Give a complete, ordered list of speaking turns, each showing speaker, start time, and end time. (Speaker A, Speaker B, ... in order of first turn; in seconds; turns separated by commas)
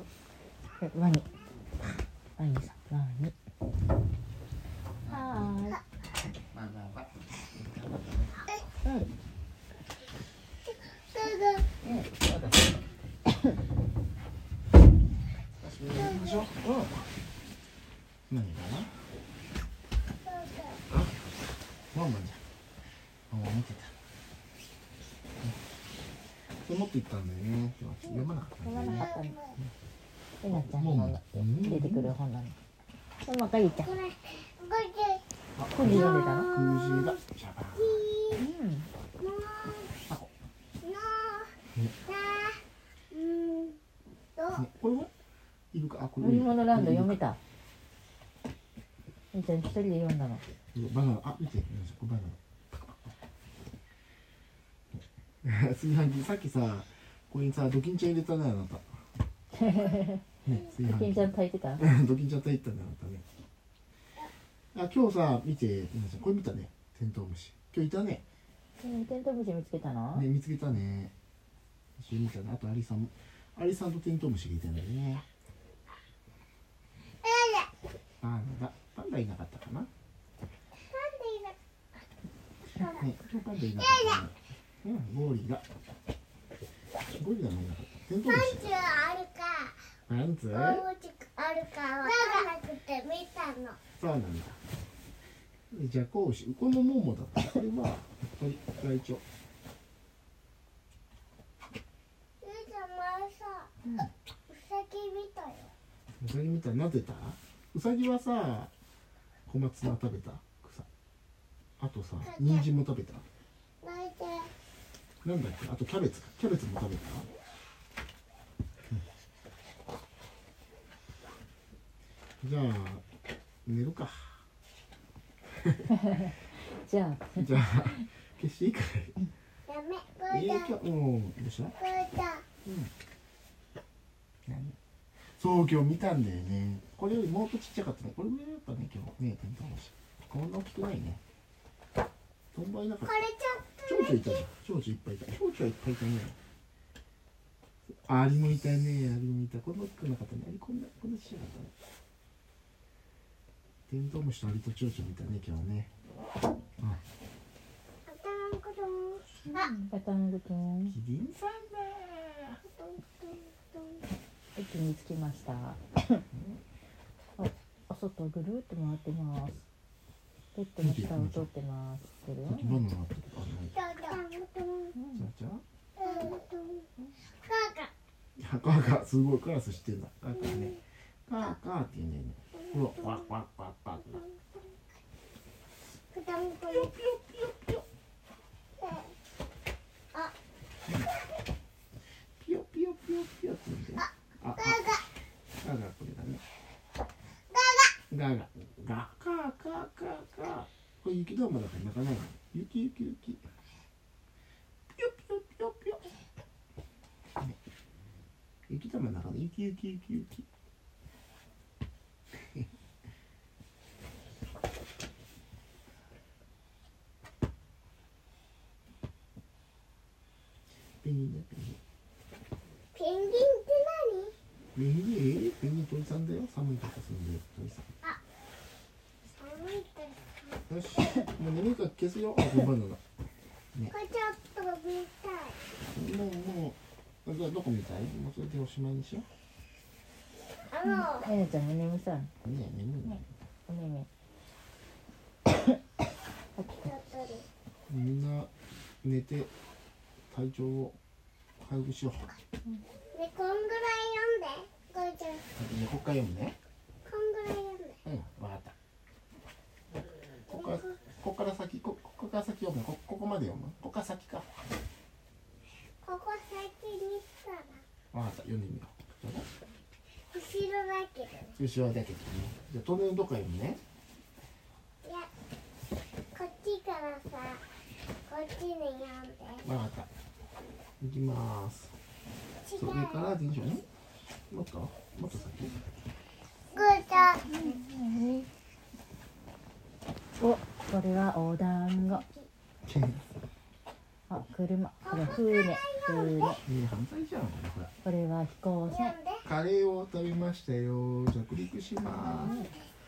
Speaker A: 0.8-1.3, Speaker A: 2.4-3.3, Speaker B: 5.0-5.6, Speaker A: 5.1-5.8, Speaker B: 6.5-8.4, Speaker A: 8.8-9.1, Speaker C: 11.0-11.7, Speaker B: 11.8-12.7, Speaker B: 15.6-17.0, Speaker C: 15.9-16.5, Speaker B: 18.3-19.0, Speaker C: 20.2-20.8, Speaker B: 20.9-21.1, Speaker B: 21.9-22.4, Speaker B: 23.3-23.9, Speaker B: 26.6-29.7, Speaker A: 28.1-29.4, Speaker C: 28.8-29.6, Speaker A: 30.4-32.5, Speaker B: 30.5-32.1, Speaker A: 33.2-33.9, Speaker C: 33.8-35.2, Speaker B: 35.5-38.0, Speaker A: 35.7-36.5, Speaker C: 35.8-37.2, Speaker C: 37.7-38.4, Speaker A: 38.4-38.9, Speaker C: 39.2-39.9, Speaker C: 40.8-41.5, Speaker C: 42.0-42.6, Speaker C: 43.1-43.8, Speaker C: 44.4-44.6, Speaker B: 44.5-45.1, Speaker B: 45.7-47.2, Speaker A: 46.2-47.4, Speaker A: 49.3-50.4, Speaker B: 50.7-53.0, Speaker B: 54.9-58.9, Speaker A: 59.5-60.2, Speaker B: 60.4-63.2, Speaker A: 60.8-61.8, Speaker B: 64.7-68.2, Speaker A: 68.8-70.2, Speaker B: 70.1-71.1, Speaker B: 72.0-75.2, Speaker C: 77.2-77.7, Speaker B: 78.2-79.9, Speaker C: 80.8-81.5, Speaker C: 82.8-83.1, Speaker B: 82.9-85.6, Speaker C: 83.8-84.2, Speaker B: 87.1-88.7, Speaker C: 88.2-89.8, Speaker B: 90.1-90.8, Speaker C: 90.5-93.8, Speaker B: 94.0-94.6, Speaker B: 95.7-99.2, Speaker C: 102.4-103.8, Speaker B: 103.8-104.1, Speaker C: 104.5-105.7, Speaker B: 106.2-108.7, Speaker B: 109.5-110.9, Speaker B: 111.8-113.2, Speaker C: 112.2-112.7, Speaker C: 113.8-114.5, Speaker B: 115.2-117.3, Speaker B: 122.4-123.0, Speaker B: 123.6-124.3, Speaker B: 125.6-125.9, Speaker A: 125.9-128.0, Speaker B: 127.3-129.2, Speaker C: 129.7-130.7, Speaker B: 130.3-131.7, Speaker C: 131.8-132.4, Speaker B: 132.6-132.9, Speaker B: 134.4-134.8, Speaker B: 135.4-141.2, Speaker B: 142.5-143.1, Speaker C: 143.0-144.4, Speaker B: 143.8-146.4, Speaker B: 148.1-151.7, Speaker B: 153.9-155.9, Speaker C: 158.1-159.7, Speaker A: 159.5-160.9, Speaker B: 160.9-162.6, Speaker C: 162.6-164.1, Speaker A: 164.6-166.2, Speaker B: 166.3-166.6, Speaker A: 167.4-169.6, Speaker A: 170.5-172.8, Speaker B: 170.8-171.5, Speaker B: 172.5-173.8, Speaker C: 173.7-174.9, Speaker A: 174.9-175.2, Speaker B: 175.1-175.6, Speaker C: 176.0-176.9, Speaker C: 177.4-177.9, Speaker B: 178.4-184.2, Speaker C: 180.4-180.8, Speaker C: 182.6-183.3, Speaker C: 184.0-184.8, Speaker C: 186.1-186.9, Speaker B: 186.7-187.8, Speaker C: 188.8-189.1, Speaker B: 192.4-194.8, Speaker C: 194.0-195.0, Speaker B: 195.6-196.4, Speaker C: 197.5-198.0, Speaker B: 198.1-203.4, Speaker B: 204.9-206.0, Speaker B: 208.7-210.5, Speaker B: 212.3-212.7, Speaker B: 221.0-221.8, Speaker C: 222.9-224.3, Speaker B: 224.7-227.9, Speaker C: 229.3-230.7, Speaker B: 230.7-233.0, Speaker C: 233.9-235.6, Speaker B: 235.9-239.3, Speaker C: 240.7-241.3, Speaker A: 240.8-242.3, Speaker B: 242.4-243.2, Speaker A: 243.0-244.1, Speaker A: 245.5-245.8, Speaker A: 246.6-246.9, Speaker C: 246.8-247.5, Speaker B: 247.9-248.5, Speaker B: 249.0-249.5, Speaker B: 250.3-251.0, Speaker B: 251.6-252.3, Speaker C: 253.1-255.4, Speaker B: 255.6-256.6, Speaker C: 257.0-258.0, Speaker B: 258.0-258.7, Speaker B: 260.5-264.5, Speaker C: 260.5-260.9, Speaker C: 266.0-267.8, Speaker B: 268.1-269.5, Speaker C: 270.3-271.6, Speaker B: 271.6-273.8, Speaker C: 275.0-275.3, Speaker C: 276.3-277.6, Speaker C: 278.3-279.7, Speaker B: 279.6-280.1, Speaker B: 281.0-281.9, Speaker C: 282.6-283.3, Speaker B: 282.8-283.9, Speaker B: 284.5-285.8, Speaker C: 286.7-287.8, Speaker A: 286.7-288.5, Speaker A: 290.4-292.2, Speaker C: 292.0-292.5, Speaker B: 292.9-293.3, Speaker A: 294.3-296.6, Speaker C: 295.0-296.6, Speaker B: 296.6-297.9, Speaker A: 298.0-299.1, Speaker C: 298.9-299.4, Speaker B: 299.4-302.6, Speaker C: 302.1-302.9, Speaker A: 302.4-302.7